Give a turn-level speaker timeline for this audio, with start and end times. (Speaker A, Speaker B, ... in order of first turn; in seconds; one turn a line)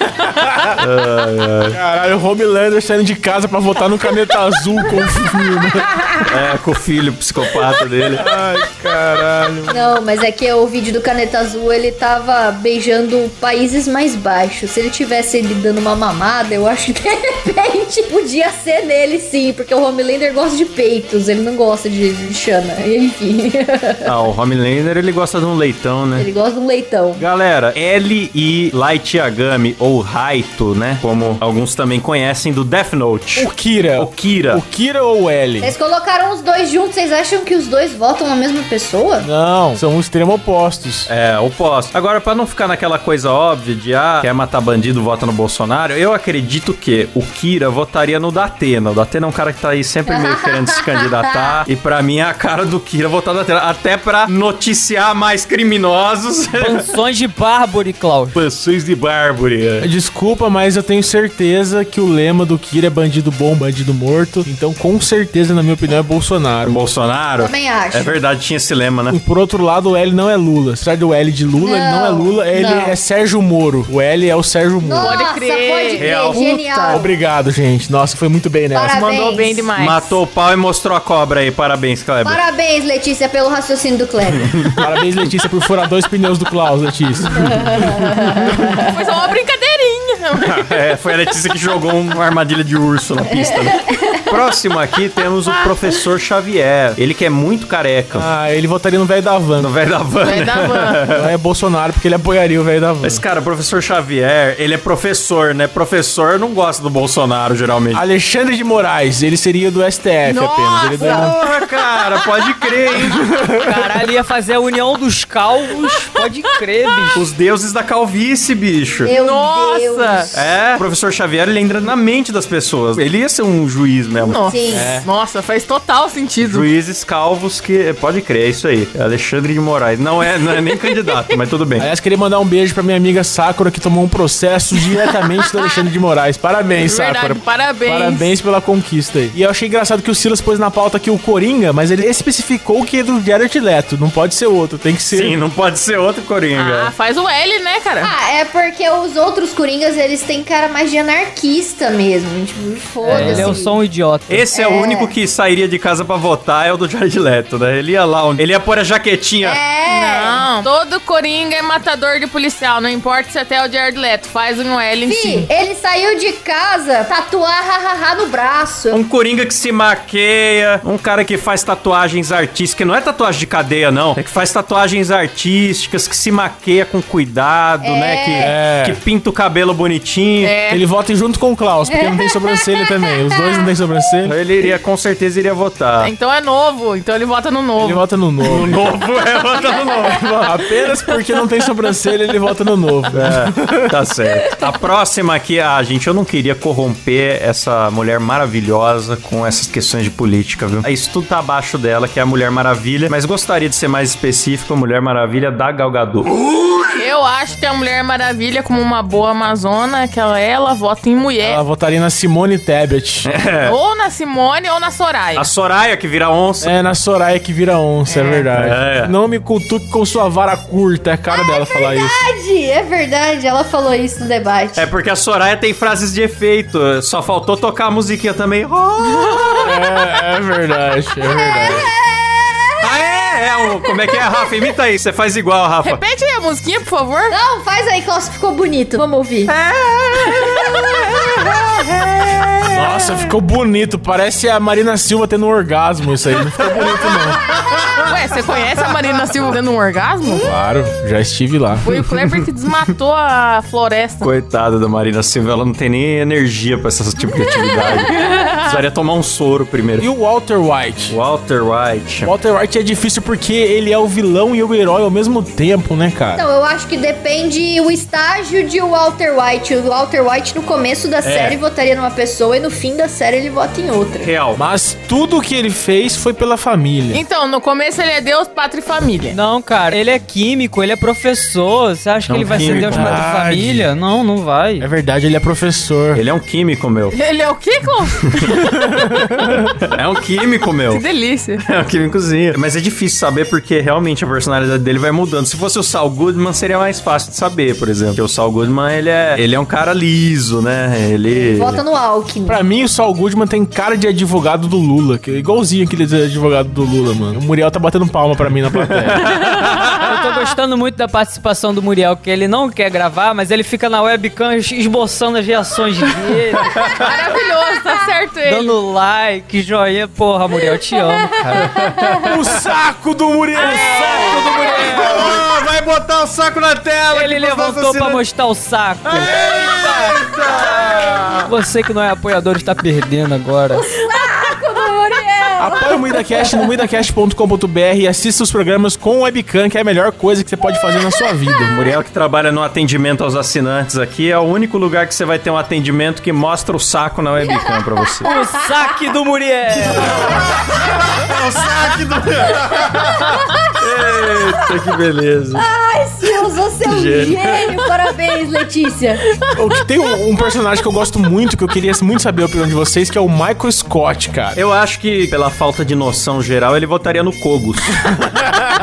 Speaker A: 0.2-0.7
Speaker B: 0.8-1.8
Speaker A: 1.7-5.9
Speaker B: 6.3-8.2
Speaker A: 8.2-9.9
Speaker C: 9.7-24.1
Speaker B: 24.1-26.3
Speaker C: 26.1-27.2
Speaker B: 27.1-34.6
Speaker A: 33.4-35.7
Speaker C: 35.6-39.3
Speaker A: 39.2-41.1
Speaker B: 41.1-56.9
Speaker C: 50.1-50.7
Speaker C: 51.3-51.6
Speaker D: 56.5-58.4
Speaker B: 58.3-59.9
Speaker A: 59.8-66.8
Speaker B: 66.6-69.2
Speaker C: 67.4-68.2
Speaker A: 69.1-75.2
Speaker C: 71.6-73.0
Speaker C: 74.8-77.1
Speaker E: 75.0-77.0
Speaker B: 76.0-76.4
Speaker A: 76.9-79.0
Speaker C: 78.7-79.7
Speaker E: 78.9-80.2
Speaker B: 79.8-82.4
Speaker C: 82.2-84.6
Speaker B: 84.3-84.8
Speaker A: 84.8-88.6
Speaker C: 87.4-88.9
Speaker E: 88.9-90.8
Speaker B: 90.4-98.3
Speaker C: 93.3-94.3
Speaker A: 98.1-99.7
Speaker B: 99.6-101.3
Speaker E: 100.2-101.0
Speaker A: 101.1-103.2
Speaker B: 103.0-108.0
Speaker A: 107.9-111.4
Speaker E: 110.2-111.5
Speaker B: 111.0-113.3
Speaker A: 113.1-113.6
Speaker D: 113.5-117.2
Speaker B: 117.1-119.1
Speaker C: 119.0-120.5
Speaker E: 119.1-120.3
Speaker B: 120.3-124.4
Speaker E: 124.2-126.7
Speaker C: 124.4-124.9
Speaker A: 124.7-125.1
Speaker B: 126.4-131.9
Speaker E: 130.7-131.4
Speaker A: 131.8-145.4
Speaker E: 136.8-138.3
Speaker B: 145.1-146.9
Speaker E: 146.6-148.1
Speaker C: 148.0-153.8
Speaker E: 153.1-153.5
Speaker D: 153.1-154.5
Speaker B: 154.3-159.6
Speaker C: 154.5-155.1
Speaker C: 159.4-160.4
Speaker E: 159.9-165.5
Speaker C: 165.1-169.0
Speaker B: 168.9-180.6
Speaker C: 177.8-178.5
Speaker A: 178.4-179.0
Speaker E: 180.4-180.8
Speaker A: 180.7-184.4
Speaker C: 181.9-183.7
Speaker B: 184.2-186.1
Speaker E: 186.0-188.1
Speaker A: 187.8-188.9
Speaker B: 188.4-190.6
Speaker A: 190.4-193.9
Speaker B: 193.1-206.5
Speaker E: 206.9-211.6
Speaker A: 211.4-213.3
Speaker B: 213.2-213.8
Speaker E: 213.6-215.5
Speaker B: 215.4-216.7
Speaker A: 216.6-222.2
Speaker E: 218.1-218.5
Speaker B: 218.6-219.1
Speaker C: 221.3-224.9
Speaker B: 224.8-229.7
Speaker C: 229.3-229.6
Speaker A: 229.6-231.9
Speaker C: 231.2-234.5
Speaker B: 232.8-236.0
Speaker E: 235.8-237.4
Speaker C: 237.3-239.5
Speaker B: 239.5-243.2
Speaker C: 240.2-240.9
Speaker A: 242.7-247.4
Speaker E: 248.0-250.5
Speaker A: 250.3-252.0
Speaker E: 251.8-254.3
Speaker B: 254.2-260.1
Speaker E: 257.7-258.8
Speaker A: 260.0-261.2
Speaker B: 261.1-262.3
Speaker A: 262.2-266.4
Speaker C: 266.4-274.3
Speaker B: 271.2-271.6
Speaker B: 274.2-274.6
Speaker A: 274.6-277.2
Speaker E: 277.1-279.4
Speaker D: 279.3-284.9
Speaker B: 282.3-283.2
Speaker A: 282.6-283.9
Speaker A: 284.8-286.2
Speaker B: 286.1-287.1
Speaker E: 287.1-288.6
Speaker A: 288.7-289.6
Speaker B: 289.7-291.0
Speaker E: 290.9-291.6
Speaker B: 291.6-301.8
Speaker C: 301.3-302.6
Speaker A: 302.5-309.2
Speaker B: 309.0-310.2
Speaker D: 309.6-316.7
Speaker B: 316.6-317.1
Speaker E: 317.0-318.8
Speaker D: 318.4-321.8
Speaker B: 321.6-322.3
Speaker A: 322.2-324.8
Speaker D: 323.6-325.4
Speaker B: 324.4-328.2
Speaker D: 327.1-330.2
Speaker B: 329.1-331.5
Speaker D: 331.4-333.9
Speaker C: 333.9-336.9
Speaker A: 335.6-341.7
Speaker C: 340.9-342.0
Speaker B: 341.7-348.3
Speaker C: 347.4-349.0
Speaker D: 348.2-350.3
Speaker B: 350.0-355.6
Speaker C: 352.8-354.6
Speaker C: 355.6-359.2
Speaker B: 356.8-357.7
Speaker A: 359.5-364.6
Speaker B: 364.6-368.2